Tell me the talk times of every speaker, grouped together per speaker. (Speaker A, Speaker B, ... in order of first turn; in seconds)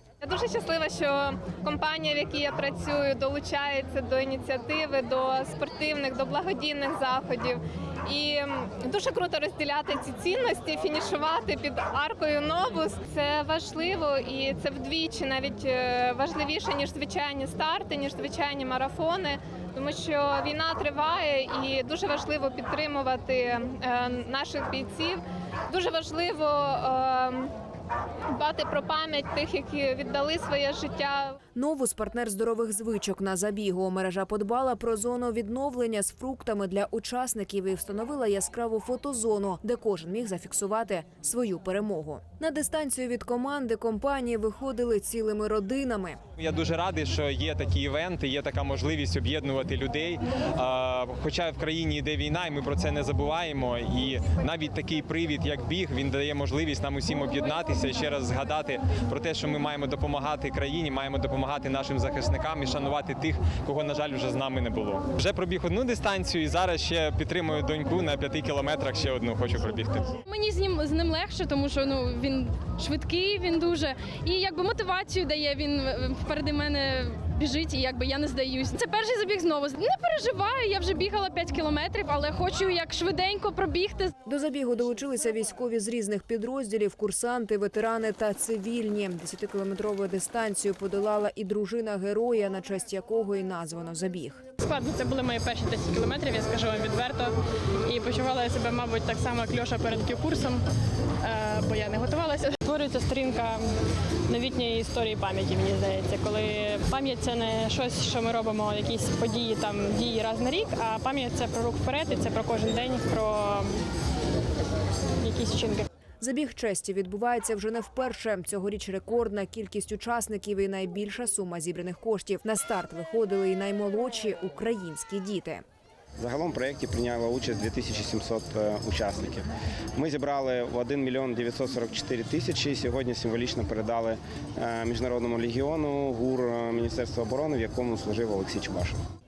Speaker A: 0.2-27.5, 28.4-31.3
Speaker B: 31.6-46.2, 84.2-94.4, 116.2-125.6
Speaker C: 46.4-70.2
Speaker D: 70.3-83.7
Speaker E: 70.3-71.7, 72.4-84.1, 94.6-97.3, 97.9-100.6, 101.2-103.7, 104.3-113.8, 115.2-115.9
Speaker F: 126.2-139.0